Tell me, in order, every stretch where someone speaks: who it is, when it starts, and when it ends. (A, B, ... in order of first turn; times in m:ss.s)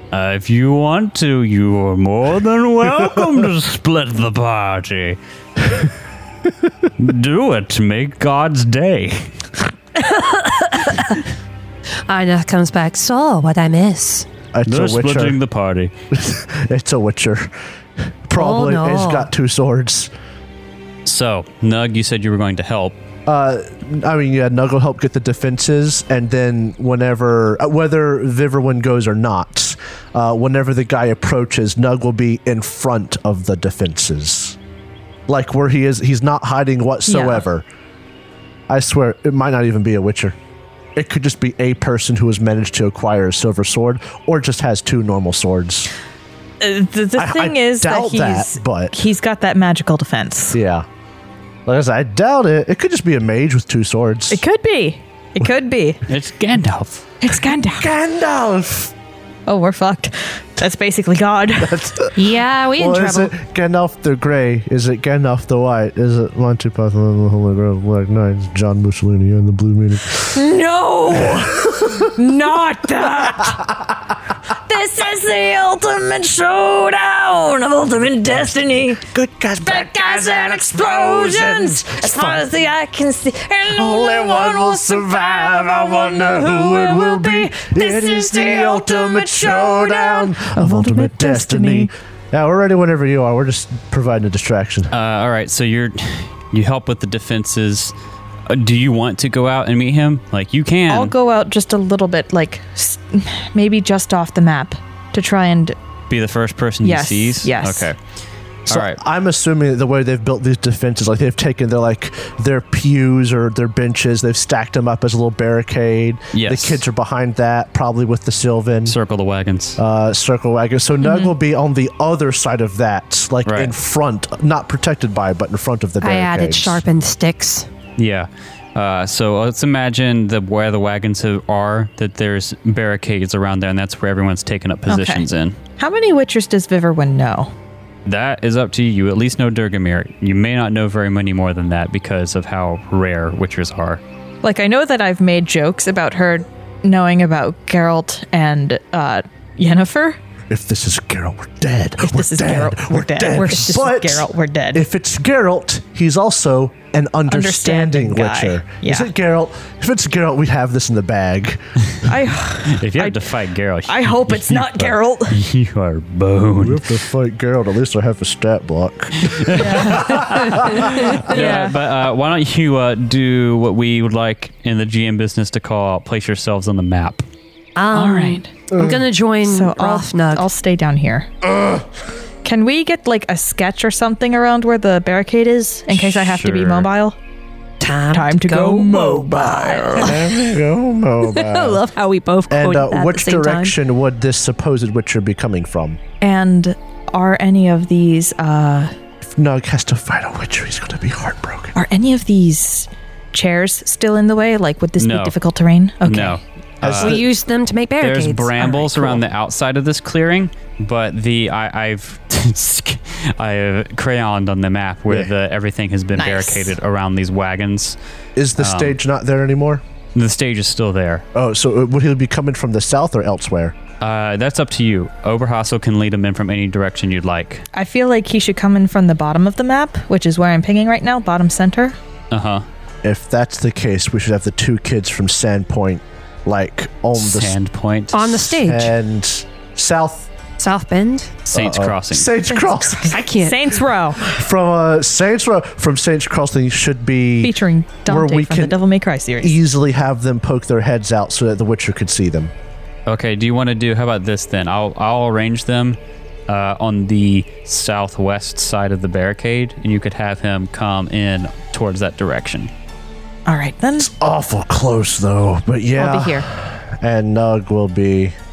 0:00.1-0:05.2 A
0:07.0-0:09.3 A
0:10.0-0:11.2 B
0:12.1-0:14.3 B
0:14.5-0:15.4 C
0:14.6-0:15.9 A
0:16.1-0:17.5 C
0:18.3-0:20.1 C
0:18.3-0:19.3 B
0:21.0-0:23.0 A
0:23.2-0:34.6 C
0:35.3-0:37.6 C
0:37.1-0:37.4 D
0:38.7-0:40.4 C
0:40.9-0:45.9 C
0:46.6-0:50.6 D
0:47.2-0:48.9 C
0:50.5-0:50.8 C
0:51.6-0:54.4 C
0:54.3-0:56.0 D
0:56.1-0:57.0 A
0:57.2-0:57.9 D
0:57.3-0:58.9 C
0:59.5-1:01.9 D
1:01.6-1:10.4 C
1:02.1-1:03.3 B
1:10.3-1:13.6 D
1:11.1-1:12.1 C
1:14.5-1:19.0 D
1:19.0-1:22.5 C
1:19.6-1:31.9 D
1:23.7-1:34.9 C
1:34.9-1:37.9 A
1:38.5-1:41.1 A
1:40.9-1:45.8 D
1:46.1-1:48.0 A
1:46.8-1:47.9 D
1:48.6-1:49.0 A
1:48.7-1:59.0 C
1:56.3-1:56.8 A
1:58.8-1:59.8 A
1:59.8-2:06.8 C
2:01.0-2:01.3 D
2:03.4-2:03.7 A
2:06.0-2:07.7 B
2:08.0-2:15.6 A
2:14.9-2:15.2 D
2:15.8-2:17.5 D
2:18.0-2:24.0 A
2:24.4-2:30.2 D
2:30.5-2:41.6 C
2:32.0-2:34.8 D
2:37.3-2:39.1 D
2:42.0-2:43.3 D
2:42.6-2:47.0 A
2:43.8-2:45.4 D
2:46.6-2:51.1 C
2:49.2-2:57.2 A
2:49.5-2:51.8 D
2:51.2-2:51.5 B
2:57.8-3:00.4 B
2:57.9-2:58.5 D
2:58.7-2:59.0 C
2:59.4-3:01.3 D
3:01.4-3:01.8 C
3:02.4-3:07.2 D
3:05.9-3:06.9 A
3:07.8-3:09.1 B
3:08.1-3:10.2 D
3:08.8-3:11.8 C
3:10.0-3:10.5 B
3:11.3-3:13.8 B
3:12.5-3:16.0 C
3:16.2-3:18.9 D
3:19.2-3:21.7 C
3:21.7-3:26.4 D
3:25.0-3:25.3 A
3:26.0-3:27.2 A
3:26.8-3:27.2 C
3:26.9-3:29.2 B
3:28.0-3:38.0 A
3:36.2-3:36.8 D
3:38.4-3:39.8 C
3:38.6-3:39.0 A
3:40.1-3:41.2 A
3:41.3-3:43.8 C
3:44.0-3:47.6 A
3:47.7-3:52.0 D
3:52.3-3:52.6 A
3:53.0-3:57.6 C
3:57.2-3:58.4 A
3:58.1-3:58.9 B
3:58.3-4:00.3 C
4:00.6-4:01.4 B
4:01.5-4:02.3 A
4:01.5-4:03.2 C
4:02.4-4:04.3 D
4:03.1-4:03.8 B
4:04.2-4:08.8 C
4:07.4-4:09.6 D
4:09.4-4:12.5 C
4:13.1-4:22.7 A
4:23.4-4:24.1 D
4:24.0-4:28.3 C
4:26.0-4:26.5 D